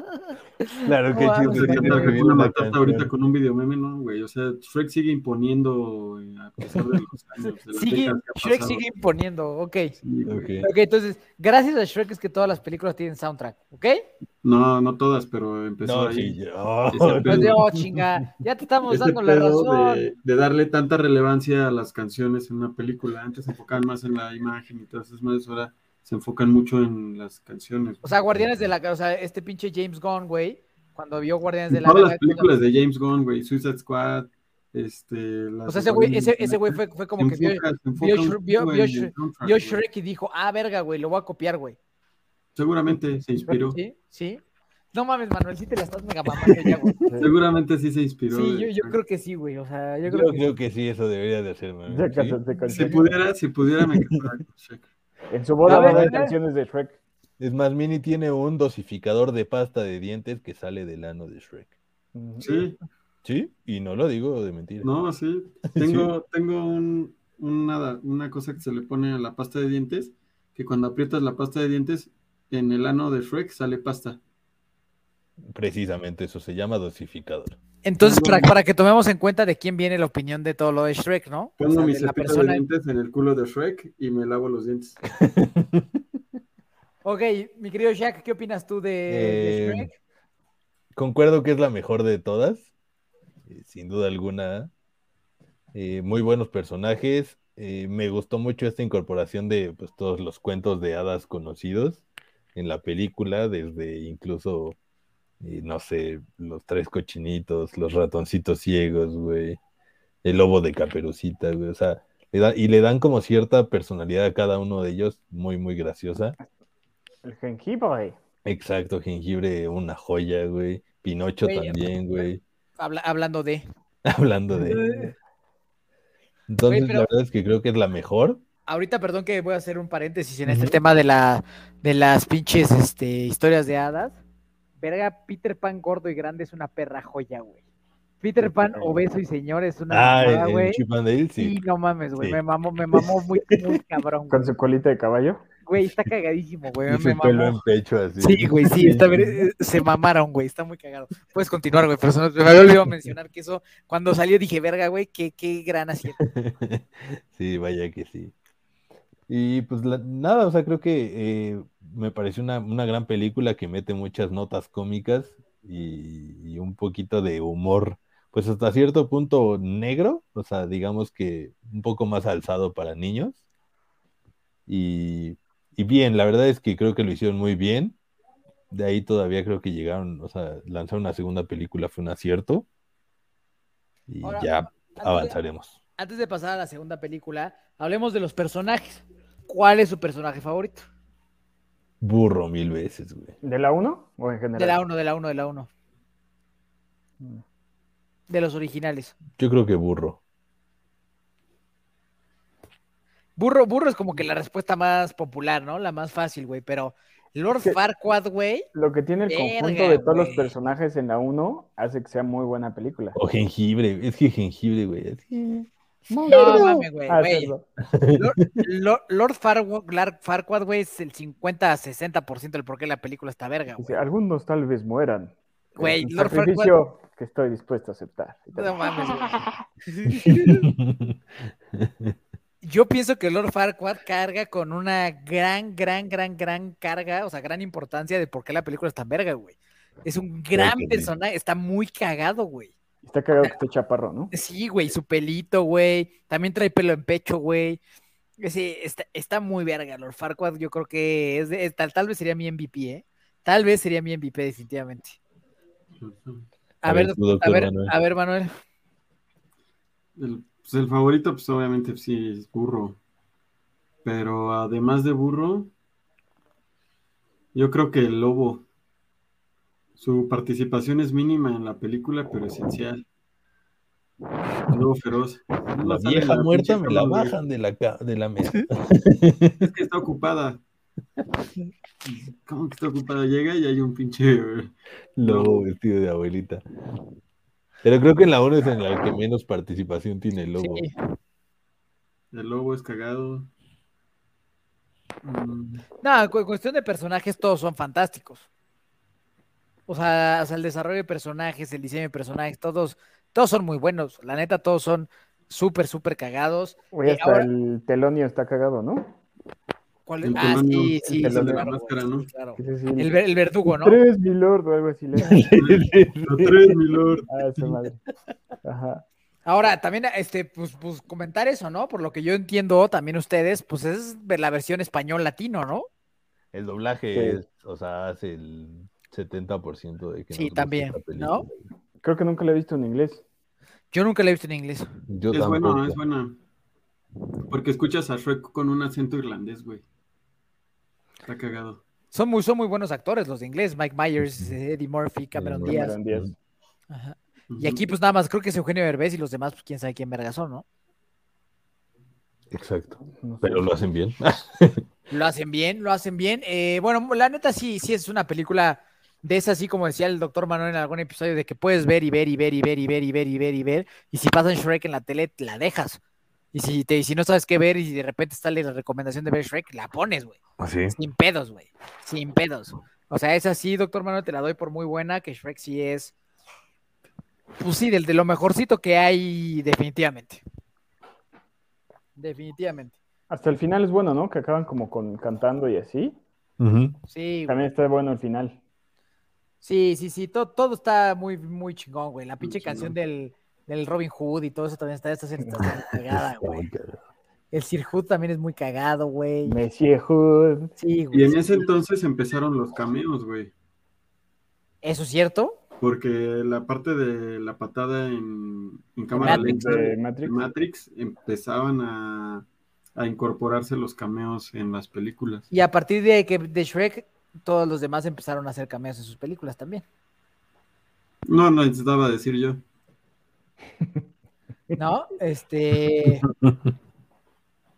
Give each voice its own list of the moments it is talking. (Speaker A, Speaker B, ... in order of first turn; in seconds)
Speaker A: 0.8-3.1, 10.3-10.7, 15.8-18.0, 50.1-52.4, 55.7-56.2, 57.4-61.7, 63.2-64.9, 65.7-66.1, 75.5-77.6, 85.2-85.9, 89.1-89.9, 91.0-92.7, 93.5-94.7, 95.7-104.8, 105.4-109.6, 110.2-116.4, 118.5-122.4, 124.1-125.1, 126.5-128.4, 130.5-130.8, 139.9-141.6, 146.9-149.4, 156.2-158.3, 159.3-173.4, 174.7-178.0, 178.7-182.7, 184.1-185.8, 192.0-193.3, 199.3-200.2, 213.2-215.7, 216.3-216.8, 217.9-218.7, 230.3-231.2, 231.7-232.2, 240.6-241.1, 256.9-257.9, 275.8-279.7, 285.2-286.6, 287.8-290.8, 315.2-316.8, 326.5-331.7, 335.1-336.0, 345.4-346.3, 352.5-354.9, 370.6-371.0, 386.6-387.0, 396.1-397.0, 426.2-426.7
Speaker B: 1.1-2.2, 7.7-9.9, 10.6-14.0, 17.3-20.0, 28.0-32.5, 35.7-41.8, 43.7-44.4, 44.9-47.0, 48.3-50.5, 55.7-56.4, 77.8-82.6, 87.0-89.9, 121.4-122.3, 122.8-123.7, 124.6-125.1, 126.7-127.1, 128.7-134.2, 134.8-137.6, 138.2-140.8, 141.4-144.5, 145.7-147.6, 148.2-156.2, 184.2-185.4, 186.0-190.8, 194.6-195.7, 198.3-199.2, 203.4-208.7, 209.3-210.6, 216.3-217.5, 218.2-224.0, 225.8-226.8, 228.6-230.7, 232.6-242.7, 244.3-247.8, 248.4-255.2, 256.8-258.5, 290.6-290.9, 296.0-298.5, 299.9-307.5, 310.1-314.0, 319.4-325.9, 330.3-331.5, 333.9-334.9, 342.1-346.0, 346.9-350.6, 355.1-366.0, 366.5-370.4, 370.9-376.1, 377.6-380.4, 382.2-383.0, 387.1-387.6, 389.6-396.7, 397.5-399.6, 400.8-401.6, 404.8-405.6, 409.2-409.6, 415.5-419.8, 424.8-426.2
Speaker C: 1.4-8.8, 10.0-10.6, 14.4-17.6, 18.9-28.1, 31.7-39.8, 42.6-43.8, 47.2-49.0, 52.7-54.9, 62.4-62.8, 64.8-74.2, 78.0-78.5, 81.6-85.0, 256.0-256.4, 260.2-263.0, 264.0-265.7, 267.5-268.7, 270.0-273.0, 274.7-277.4, 279.6-280.6, 282.0-285.7, 292.3-293.5, 295.2-295.9, 310.3-312.3, 315.6-317.3, 335.3-336.4, 337.5-339.8, 341.2-341.8, 347.5-347.9, 392.4-392.9, 401.1-403.5, 405.8-415.5, 421.3-422.6
Speaker D: 47.1-47.3, 51.9-53.1, 55.3-57.0, 62.1-62.5, 117.2-118.2, 144.3-145.4, 193.4-194.8, 208.7-213.2, 216.1-217.7, 223.8-229.4, 243.0-244.3, 306.9-309.2, 311.1-311.7, 312.6-313.2, 313.8-315.5, 317.3-318.0, 318.6-319.1, 327.1-327.4, 332.0-333.2, 345.6-346.3, 353.2-353.7, 383.3-386.2, 387.5-388.6, 399.4-400.7, 409.2-410.4